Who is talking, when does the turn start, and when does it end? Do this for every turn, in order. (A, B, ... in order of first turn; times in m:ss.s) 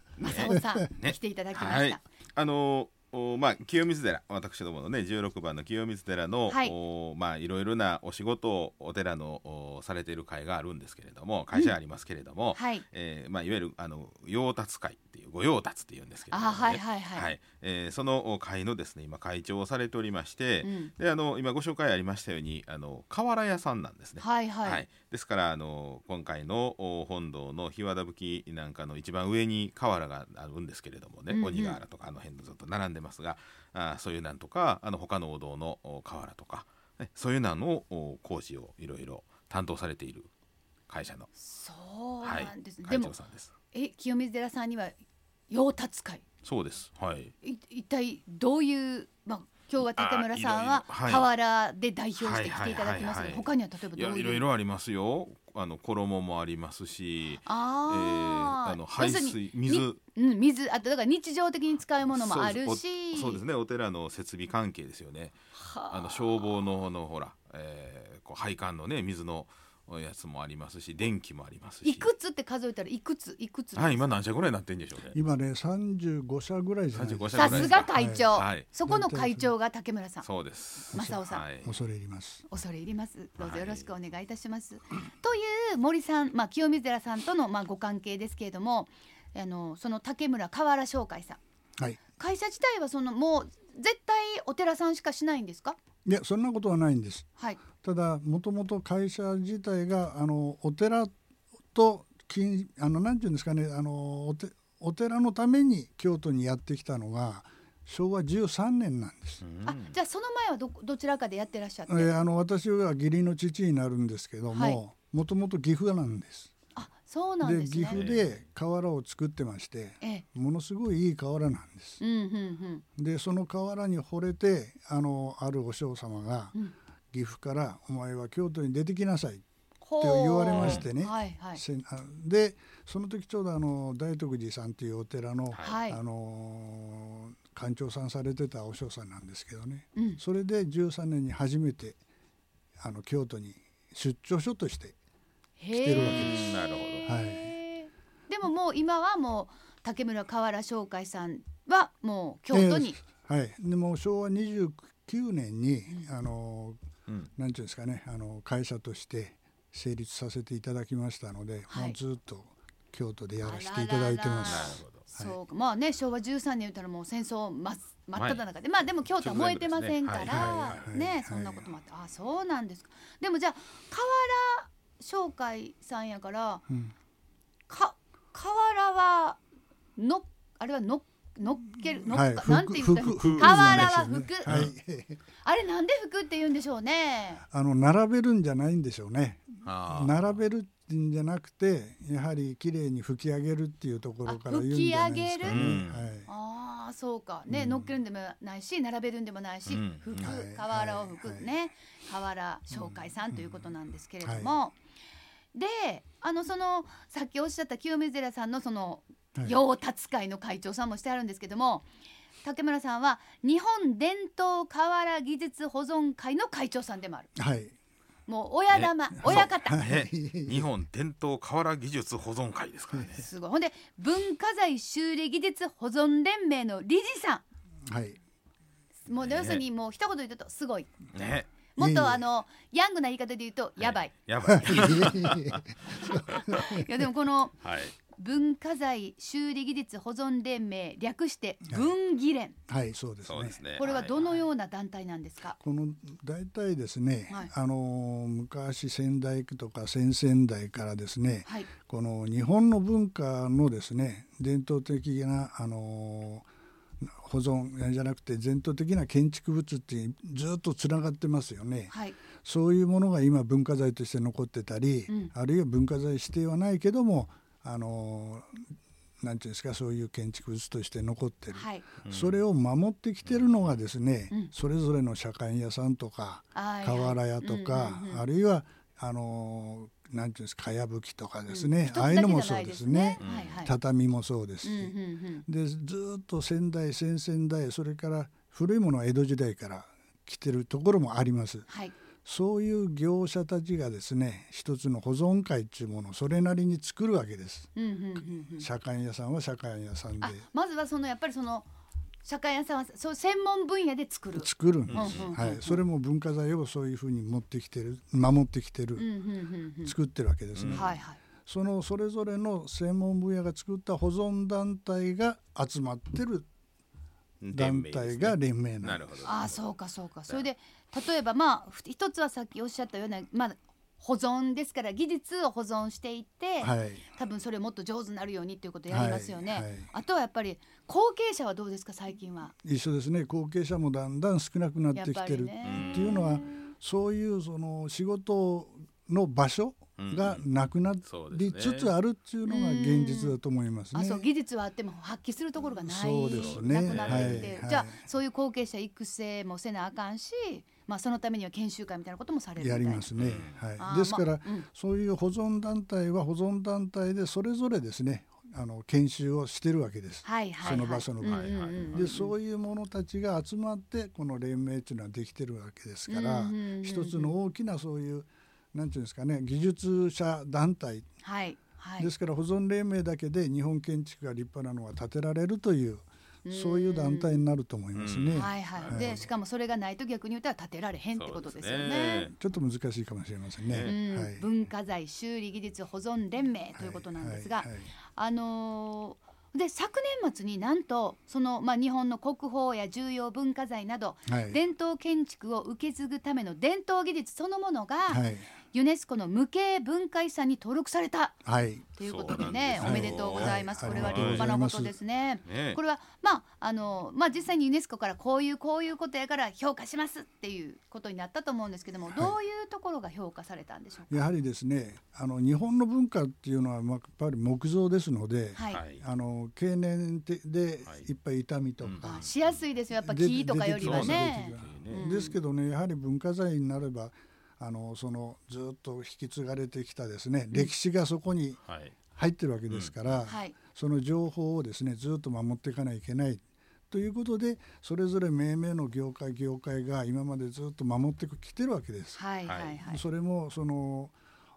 0:00.2-0:02.0 A
0:00.2-0:40.3 B
0:00.4-0:00.9 C
0:06.5-0:06.8 A
0:12.6-0:12.8 A
0:16.3-0:17.3 A
0:20.6-0:20.9 A
0:24.2-0:24.8 A
0:31.3-0:31.8 A
0:40.9-0:41.3 B
0:41.4-0:43.2 A
0:42.2-0:43.5 B
0:43.7-0:45.0 A
0:45.5-0:46.2 A
0:46.4-0:47.3 B
0:47.4-0:54.4 A
0:50.0-0:51.3 B
0:52.2-1:00.0 B
0:57.5-1:03.4 A
1:02.0-1:05.4 B
1:05.5-1:06.5 A
1:05.9-1:12.1 B
1:11.8-1:14.1 A
1:13.8-1:15.2 B
1:15.1-1:19.5 C
1:16.9-1:18.7 B
1:17.3-1:20.3 A
1:20.2-1:21.8 B
1:20.9-1:21.4 A
1:20.9-1:22.4 C
1:22.5-1:31.4 A
1:23.4-1:23.9 B
1:32.2-1:35.8 A
1:36.0-1:41.1 C
1:37.4-1:37.6 A
1:41.7-1:49.4 C
1:49.4-1:50.0 B
1:49.7-1:52.1 A
1:51.9-1:56.5 C
1:54.5-1:54.8 A
1:56.8-1:58.0 A
1:57.4-2:02.0 C
1:57.9-1:58.4 B
2:02.0-2:02.8 A
2:03.0-2:06.6 C
2:07.1-2:09.4 C
2:09.8-2:11.6 A
2:10.0-2:22.0 C
2:10.5-2:10.9 B
2:15.5-2:15.8 B
2:15.6-2:16.0 A
2:22.8-2:25.0 C
2:25.6-2:33.0 A
2:25.7-2:27.5 C
2:25.9-2:27.1 B
2:32.5-2:36.8 C
2:37.4-2:45.4 C
2:41.7-2:42.0 A
2:43.4-2:56.6 A
2:44.4-2:45.0 B
2:48.2-2:48.4 B
2:49.1-2:50.8 B
2:50.2-2:51.7 C
2:57.7-2:59.4 A
3:00.0-3:04.5 A
3:02.1-3:05.2 C
3:03.0-3:04.7 B
3:05.4-3:07.4 A
3:07.5-3:16.3 C
3:09.6-3:10.4 B
3:14.2-3:24.8 A
3:15.4-3:16.1 B
3:17.5-3:18.0 C
3:19.7-3:20.4 B
3:20.2-3:21.5 C
3:22.7-3:23.6 C
3:24.2-3:24.5 C
3:25.5-3:31.9 A
3:32.4-3:37.3 A
3:37.4-3:37.7 C
3:38.3-3:39.9 A
3:38.7-3:43.3 B
3:39.2-3:40.7 C
3:43.1-3:47.4 A
3:47.9-3:48.2 C
3:49.1-3:50.9 A
3:49.2-3:49.6 B
3:51.1-3:51.5 B
3:51.8-3:55.1 A
3:51.8-3:52.2 C
3:53.8-3:56.6 B
3:54.5-3:56.8 C
3:56.3-3:57.6 A
3:57.6-3:58.0 B
3:58.1-4:02.6 A
4:02.7-4:03.6 C
4:03.3-4:04.4 B
4:03.8-4:05.6 A
4:05.6-4:16.5 C
4:17.0-4:28.6 C
4:21.9-4:22.2 A
4:29.2-4:51.7 C
4:31.5-4:31.9 A
4:32.0-4:32.4 B
4:33.2-4:33.8 B
4:36.5-4:38.3 A
4:41.5-4:43.7 A
4:43.2-4:43.6 B
4:44.6-4:45.4 A
4:51.7-4:51.9 A
4:52.2-5:00.4 C
4:57.8-4:58.7 A
5:00.2-5:01.7 A
5:02.2-5:05.8 A
5:04.4-5:09.1 C
5:04.9-5:05.4 B
5:09.0-5:10.0 A
5:09.8-5:16.5 C
5:10.5-5:10.9 B
5:10.7-5:11.2 A
5:17.4-5:19.6 B
5:17.5-5:19.2 C
5:19.2-5:32.5 A
5:26.6-5:27.1 C
5:28.9-5:29.9 C
5:32.6-5:44.2 C
5:35.0-5:36.7 A
5:35.6-5:36.4 B
5:40.0-5:40.5 B
5:41.0-5:42.0 B
5:42.4-5:43.4 A
5:43.9-5:53.1 A
5:45.8-5:48.0 C
5:46.3-5:47.5 B
5:52.6-6:11.1 C
5:53.2-5:53.6 B
5:53.8-5:54.7 A
6:00.2-6:02.3 A
6:01.2-6:02.1 B
6:06.1-6:07.3 A
6:11.2-6:12.1 A
6:12.0-6:19.2 C
6:16.4-6:17.5 A
6:17.9-6:19.3 B
6:18.3-6:22.3 A
6:21.2-6:22.3 B
6:22.3-6:24.5 C
6:23.7-6:23.9 B
6:23.8-6:54.3 A
6:26.7-6:27.9 C
6:34.3-6:34.6 C
6:38.1-6:38.5 C
6:41.4-6:41.9 C
6:42.0-6:44.5 B
6:42.8-6:45.0 C
6:45.5-6:45.8 B
6:52.1-6:52.4 C
6:54.1-7:02.3 C
6:58.6-6:58.8 A
6:58.7-6:59.0 B
7:01.8-7:02.6 B
7:02.0-7:05.4 A
7:03.0-7:11.6 C
7:03.8-7:05.1 B
7:11.6-7:11.9 B
7:12.2-7:22.2 C
7:12.7-7:13.2 B
7:13.3-7:13.6 A
7:22.2-7:23.0 A
7:22.5-7:22.8 B
7:22.9-7:24.2 C